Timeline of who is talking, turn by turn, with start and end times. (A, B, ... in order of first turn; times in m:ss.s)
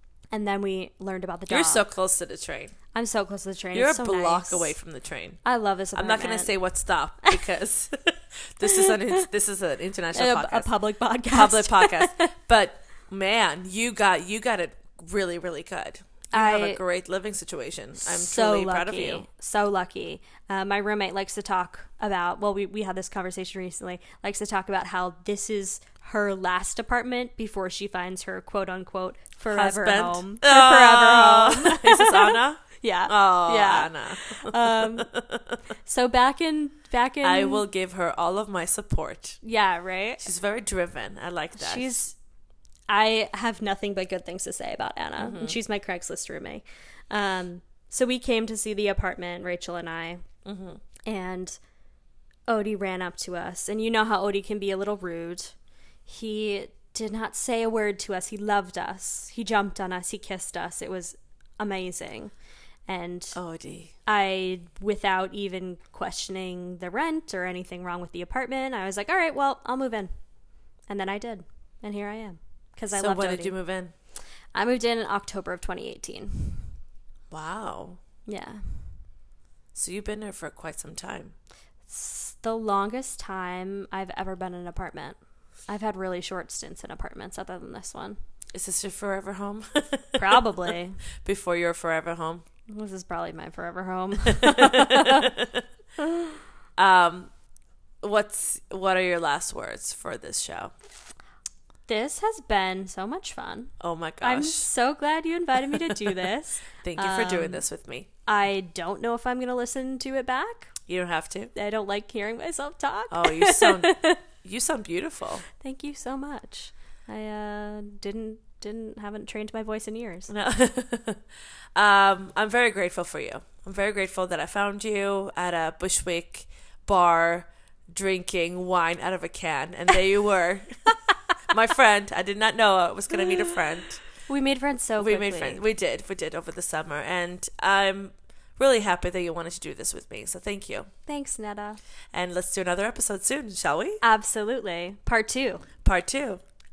0:00.3-0:01.9 A
0:01.5-0:02.8 B
0:02.9-0:04.8 A
0:03.7-0:10.7 B
0:05.4-0:06.6 A
0:10.1-0:12.4 A
0:11.2-0:19.2 B
0:16.3-0:16.8 A
0:18.0-0:35.1 A
0:29.5-0:35.5 B
0:35.8-0:37.6 A
0:37.2-0:39.4 B
0:39.4-0:40.2 A
0:40.2-0:41.9 B
0:41.6-0:42.2 A
0:42.9-0:50.3 A
0:45.2-0:45.6 B
0:50.4-0:50.8 B
0:51.0-0:51.6 A
0:52.5-1:03.4 A
1:03.4-1:03.9 B
1:04.0-1:14.0 A
1:12.9-1:13.9 B
1:14.5-1:16.7 A
1:17.3-1:18.0 B
1:18.3-1:19.0 A
1:19.7-1:21.3 B
1:21.9-1:28.2 A
1:28.5-1:30.4 B
1:30.2-1:31.0 A
1:31.2-1:32.4 B
1:32.7-1:35.3 A
1:34.6-1:35.6 B
1:36.8-1:37.4 B
1:38.0-1:40.7 B
1:41.9-1:47.6 A
1:43.8-1:44.7 B
1:46.8-1:48.1 B
1:48.3-1:50.8 A
1:50.9-1:51.5 B
1:51.5-1:54.2 A
1:53.1-1:55.5 B
1:55.6-2:00.3 A
2:00.3-2:01.2 B
2:01.8-2:10.9 B
2:11.5-2:14.3 B
2:14.3-2:15.6 A
2:15.0-2:20.9 B
2:21.1-2:21.8 A
2:22.1-2:24.0 B
2:24.0-2:25.6 A
2:25.8-2:26.4 B